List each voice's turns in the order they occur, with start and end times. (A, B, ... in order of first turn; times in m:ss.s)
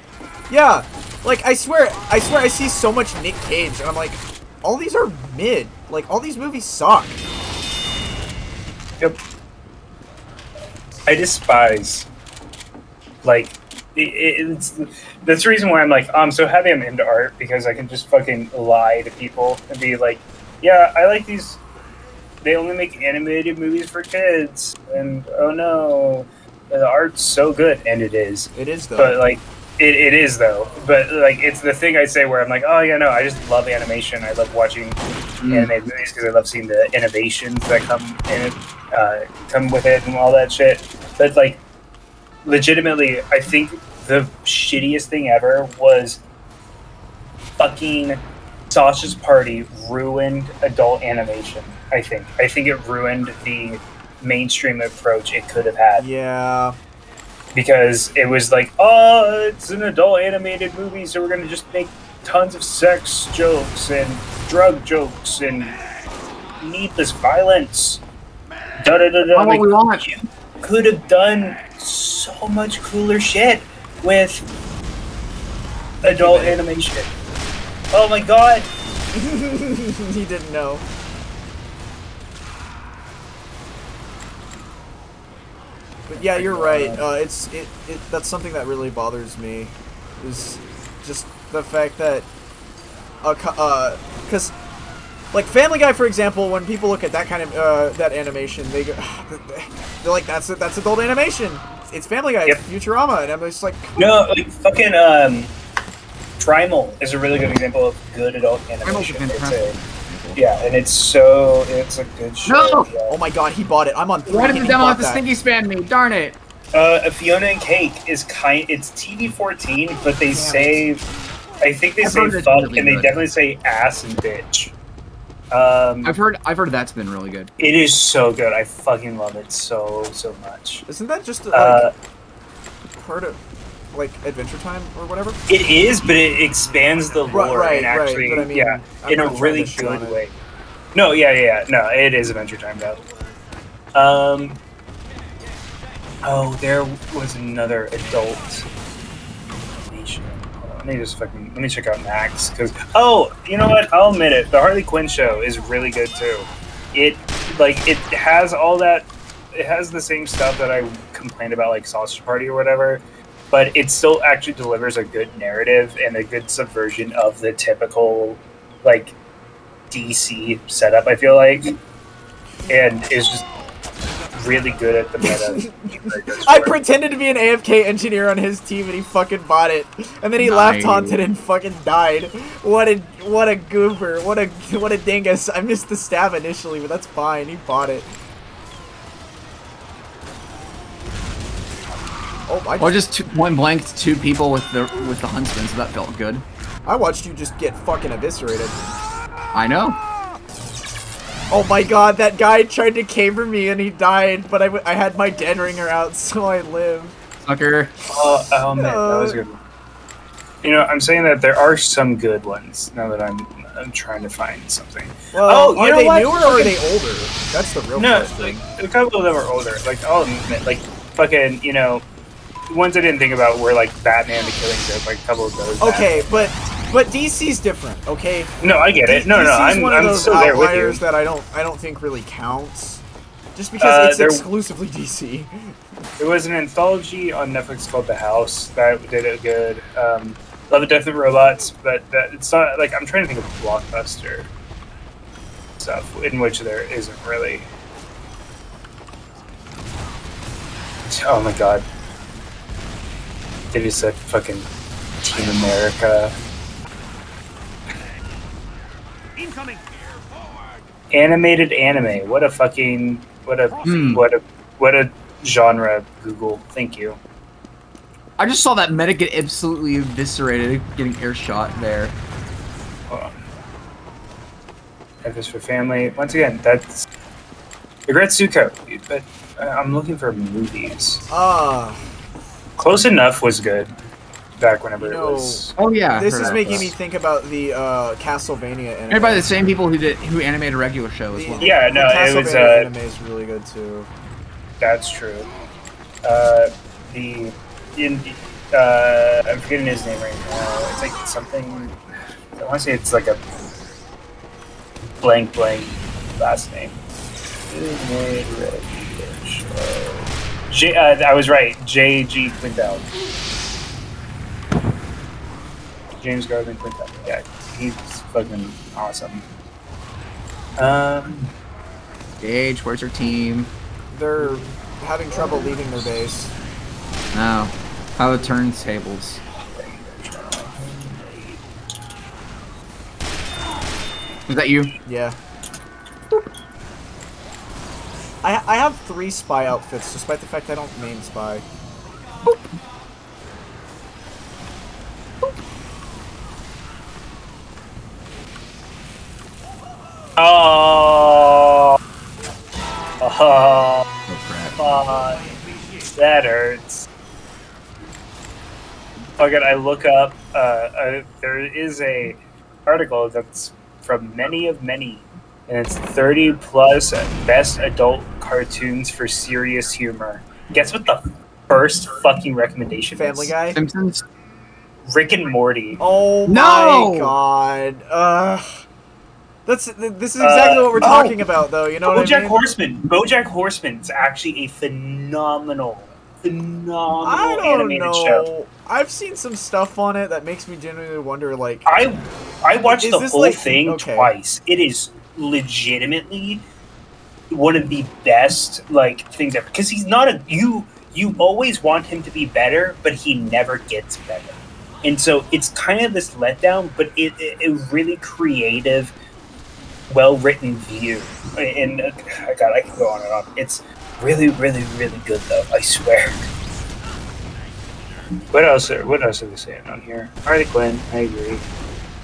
0:00.5-0:07.2 A
0:11.1-0:12.1 B
0:13.2-0:21.6 B
0:22.4-0:41.6 B
0:28.5-0:29.2 A
0:35.4-0:35.7 C
0:42.4-0:46.2 B
0:47.6-0:56.0 B
0:56.0-0:56.8 A
0:57.5-1:05.8 B
1:06.6-1:08.0 B
1:08.8-1:14.4 B
1:09.3-1:10.1 C
1:16.0-1:17.1 B
1:16.0-1:16.6 A
1:17.9-1:18.7 B
1:19.1-1:20.8 A
1:26.1-1:32.3 A
1:26.3-1:27.0 B
1:33.2-1:34.5 A
1:35.3-1:44.0 A
1:44.0-1:45.5 B
1:46.4-1:49.8 B
1:48.8-1:50.4 C
1:50.3-1:53.1 B
1:52.4-1:52.9 C
1:53.1-1:55.2 A
1:54.3-1:56.4 C
1:56.7-2:01.1 B
2:00.3-2:00.8 A
2:01.6-2:04.7 B
2:02.0-2:03.2 C
2:05.5-2:06.1 B
2:06.0-2:07.5 C
2:07.6-2:10.8 B
2:10.9-2:11.9 A
2:11.5-2:11.9 B
2:13.0-2:13.4 A
2:13.9-2:15.4 A
2:15.5-2:20.4 B
2:17.3-2:20.2 A
2:20.9-2:23.0 B
2:23.9-2:24.6 B
2:26.2-2:28.6 B
2:29.9-2:49.2 B
2:49.9-2:51.8 B
2:52.7-2:53.5 B
2:54.3-2:56.8 B
2:55.2-2:55.7 A
2:56.4-3:08.1 A
3:00.4-3:01.2 C
3:12.5-3:12.9 A
3:12.8-3:16.4 C
3:16.8-3:18.8 A
3:19.5-3:20.0 C
3:21.5-3:27.2 A
3:27.4-3:27.9 C
3:28.1-3:29.6 B
3:28.8-3:29.4 A
3:30.6-3:36.8 B
3:35.3-3:38.6 A
3:38.0-3:42.0 B
3:42.7-3:46.5 B
3:45.8-3:53.0 A
3:48.6-3:51.0 B
3:53.5-3:55.7 A
3:53.8-3:54.4 B
3:56.2-4:04.5 B
4:05.8-4:07.7 B
4:11.1-4:11.8 B
4:13.7-4:14.7 B
4:15.2-4:16.4 B
4:21.1-4:27.2 B
4:23.8-4:24.2 C
4:28.4-4:32.1 C
4:33.1-4:33.3 B
4:35.2-4:37.0 B
4:38.1-4:41.2 B
4:41.3-4:42.0 A
4:42.8-4:43.9 B
4:44.6-4:45.7 B
4:45.0-4:49.5 A
4:45.8-4:46.9 C
4:46.5-4:46.9 B
4:49.1-4:51.7 C
4:51.3-4:54.1 A
4:51.6-4:52.9 B
4:54.8-4:55.5 B
4:56.2-5:01.9 B
5:02.6-5:03.4 B
5:05.2-5:07.0 B
5:07.7-5:13.1 B
5:16.2-5:19.4 B
5:20.8-5:21.5 B
5:22.4-5:23.7 C
5:24.1-5:26.5 A
5:27.3-5:29.4 C
5:29.6-5:31.6 B
5:34.5-5:34.9 C
5:35.0-5:35.4 A
5:38.4-5:41.6 A
5:50.4-5:52.0 B
5:53.2-5:54.0 B
5:54.3-5:54.8 C
5:54.8-5:55.5 B
5:56.1-5:57.1 B
5:59.4-6:13.5 B
6:13.1-6:13.8 A
6:13.7-6:14.2 C
6:15.0-6:16.0 B
6:16.0-6:18.8 A
6:16.5-6:17.3 C
6:19.6-6:22.6 A
6:20.4-6:21.2 B
6:21.0-6:21.4 C
6:22.0-6:28.5 B
6:27.2-6:31.9 A
6:31.8-6:36.6 B
6:32.8-6:34.3 A
6:37.5-6:49.1 B
6:50.1-6:56.5 B
6:58.5-7:01.6 B